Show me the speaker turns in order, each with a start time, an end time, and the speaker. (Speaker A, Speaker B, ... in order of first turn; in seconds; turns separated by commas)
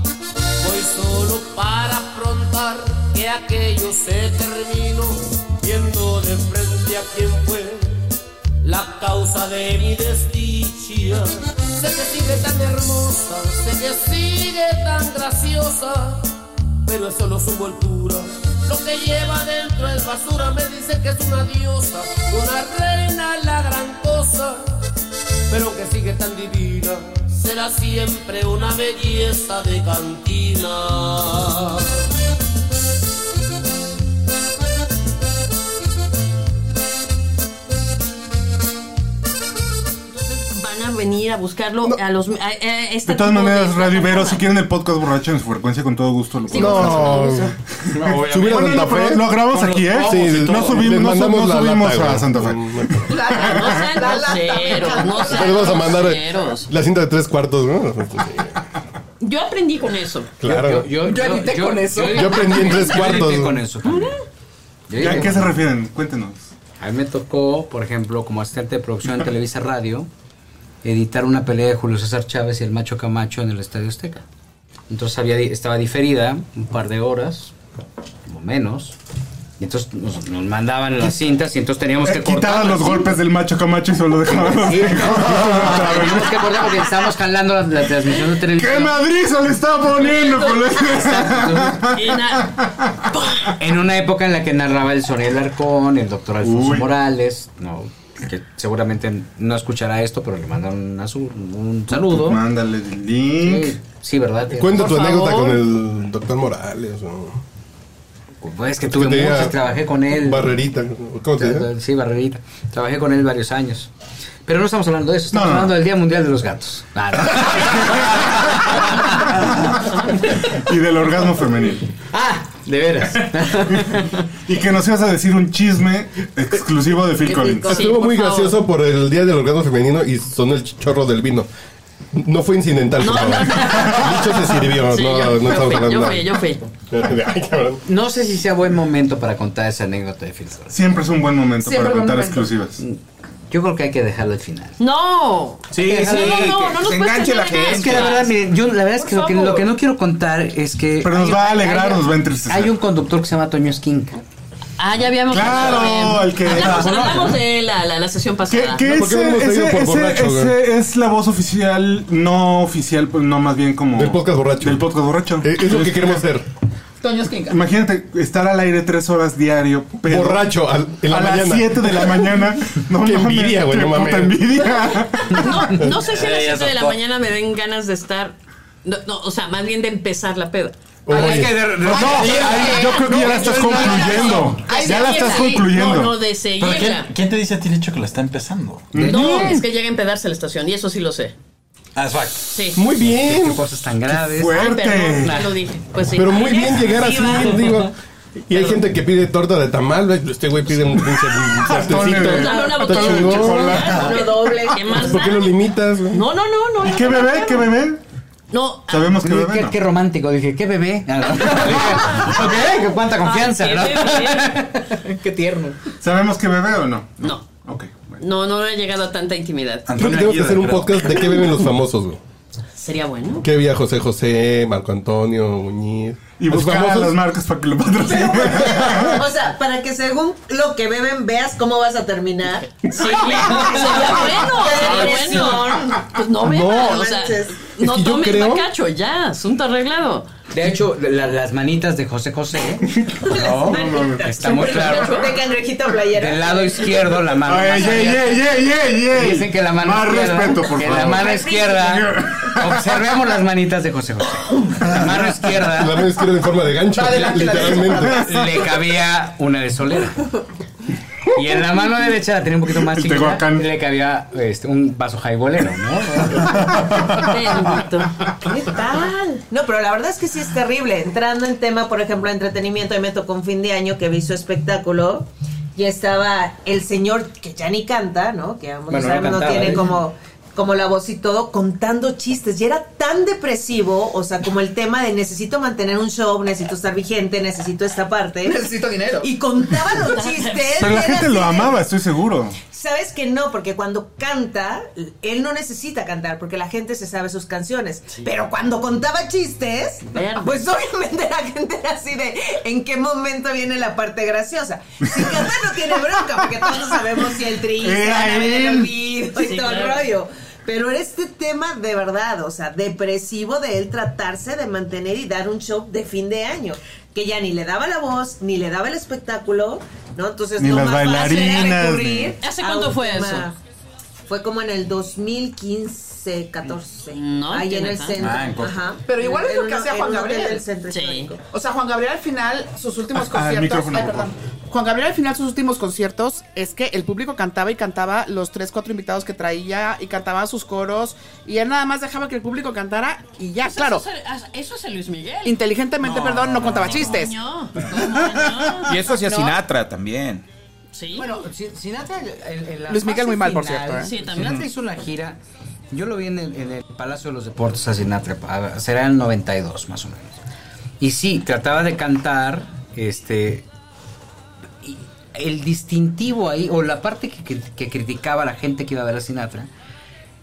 Speaker A: 0.6-8.1, Speaker A: 8.6-16.3, Speaker A: 16.9-24.8, Speaker A: 25.5-32.0, Speaker B: 40.1-44.4, Speaker C: 43.0-53.9, Speaker B: 46.5-47.4, Speaker D: 46.5-47.5, Speaker E: 48.0-48.6, Speaker D: 48.2-49.4, Speaker E: 49.5-50.8, Speaker D: 49.9-53.1, Speaker F: 53.0-55.9, Speaker B: 53.3-56.7, Speaker D: 55.1-58.6, Speaker B: 59.2-60.3, Speaker D: 60.4-60.9, Speaker E: 60.4-64.2, Speaker F: 60.9-62.7, Speaker D: 62.1-63.6, Speaker B: 63.9-64.1, Speaker E: 64.9-65.7, Speaker C: 65.0-66.5, Speaker E: 66.8-70.1, Speaker E: 70.8-74.2, Speaker E: 74.9-77.5, Speaker E: 78.3-79.0, Speaker E: 79.6-83.2, Speaker C: 82.0-86.9, Speaker E: 84.3-89.1, Speaker C: 88.5-93.3, Speaker B: 90.0-90.9, Speaker E: 90.8-91.9, Speaker B: 91.9-93.5, Speaker E: 93.6-102.4, Speaker C: 96.4-96.9, Speaker C: 102.0-103.8, Speaker E: 103.3-104.9, Speaker D: 104.6-107.4, Speaker B: 104.7-105.7, Speaker E: 108.4-110.6, Speaker D: 108.8-109.6, Speaker D: 110.1-111.7, Speaker E: 111.4-113.9, Speaker E: 114.5-119.8, Speaker C: 115.3-115.8, Speaker C: 120.3-121.9, Speaker E: 122.1-124.2, Speaker C: 123.7-127.8, Speaker G: 127.2-127.9, Speaker B: 127.6-128.6, Speaker D: 127.6-131.5, Speaker D: 132.1-136.3, Speaker B: 133.0-136.7, Speaker D: 136.9-137.8, Speaker E: 137.8-140.8, Speaker C: 140.7-142.8, Speaker F: 141.6-142.5, Speaker E: 142.8-144.8, Speaker B: 144.8-148.3, Speaker E: 145.7-146.9, Speaker H: 145.7-148.1, Speaker E: 147.5-154.2, Speaker B: 149.0-149.7, Speaker C: 151.0-152.8, Speaker B: 154.8-158.9, Speaker C: 155.3-157.4, Speaker C: 158.5-166.3, Speaker D: 158.9-160.6, Speaker D: 163.9-164.9, Speaker D: 165.4-166.5, Speaker C: 167.5-170.5, Speaker D: 170.1-172.3, Speaker C: 171.1-175.8, Speaker D: 173.0-174.5, Speaker B: 175.2-180.8, Speaker I: 176.1-177.0, Speaker D: 181.1-181.8, Speaker E: 181.1-184.5, Speaker C: 181.8-186.2, Speaker F: 181.9-185.7, Speaker B: 182.2-187.1, Speaker I: 186.6-188.9, Speaker C: 188.9-189.5, Speaker E: 188.9-189.7, Speaker B: 189.0-191.3, Speaker I: 192.0-192.7, Speaker B: 192.5-192.8, Speaker D: 192.8-193.6, Speaker E: 193.0-195.6, Speaker C: 194.1-195.4, Speaker B: 194.5-197.8, Speaker D: 196.1-197.9, Speaker D: 198.5-203.8, Speaker B: 198.5-198.8, Speaker C: 201.6-204.2, Speaker B: 202.2-205.6, Speaker G: 203.8-205.1, Speaker D: 204.9-206.2, Speaker B: 206.1-207.7, Speaker C: 206.8-208.0, Speaker B: 208.5-209.2, Speaker C: 208.9-209.8, Speaker E: 209.2-215.8, Speaker B: 211.9-212.4, Speaker B: 213.2-214.7, Speaker C: 216.0-218.2, Speaker B: 218.2-219.9, Speaker I: 219.9-221.4, Speaker D: 220.0-222.2, Speaker B: 222.8-223.5, Speaker D: 223.4-227.2, Speaker C: 226.4-229.2, Speaker G: 228.1-237.6, Speaker D: 228.6-229.2, Speaker B: 232.9-240.3, Speaker D: 236.4-237.0, Speaker D: 237.8-238.7, Speaker E: 240.5-245.4, Speaker C: 243.4-244.3, Speaker G: 243.5-246.9, Speaker B: 244.3-245.3, Speaker E: 246.1-256.1, Speaker C: 247.3-253.2, Speaker C: 254.8-255.5, Speaker D: 255.6-258.3, Speaker F: 256.9-258.3, Speaker E: 258.1-260.4, Speaker C: 258.2-258.7, Speaker E: 261.3-267.0, Speaker C: 262.7-263.7, Speaker C: 266.5-267.8, Speaker B: 267.1-268.1, Speaker G: 268.4-288.6, Speaker E: 278.9-279.9, Speaker F: 288.4-289.3, Speaker G: 289.2-291.7, Speaker B: 290.0-290.7, Speaker C: 290.8-292.6, Speaker G: 292.6-323.6, Speaker B: 300.1-300.6, Speaker C: 307.8-308.9, Speaker B: 309.4-310.1, Speaker C: 320.6-322.4, Speaker B: 322.4-323.5, Speaker G: 324.3-331.4, Speaker B: 327.1-328.2, Speaker I: 328.2-328.9, Speaker F: 329.1-330.6, Speaker B: 330.9-331.3, Speaker F: 331.5-344.0, Speaker C: 333.1-334.3, Speaker B: 343.6-345.6, Speaker F: 345.4-347.3, Speaker B: 346.1-349.0, Speaker E: 346.2-346.8, Speaker H: 348.8-350.4, Speaker F: 349.1-349.6, Speaker B: 350.9-351.3, Speaker E: 351.2-355.4, Speaker F: 352.9-354.1, Speaker B: 354.0-354.6, Speaker E: 355.9-360.4, Speaker E: 361.0-363.7, Speaker E: 364.8-369.7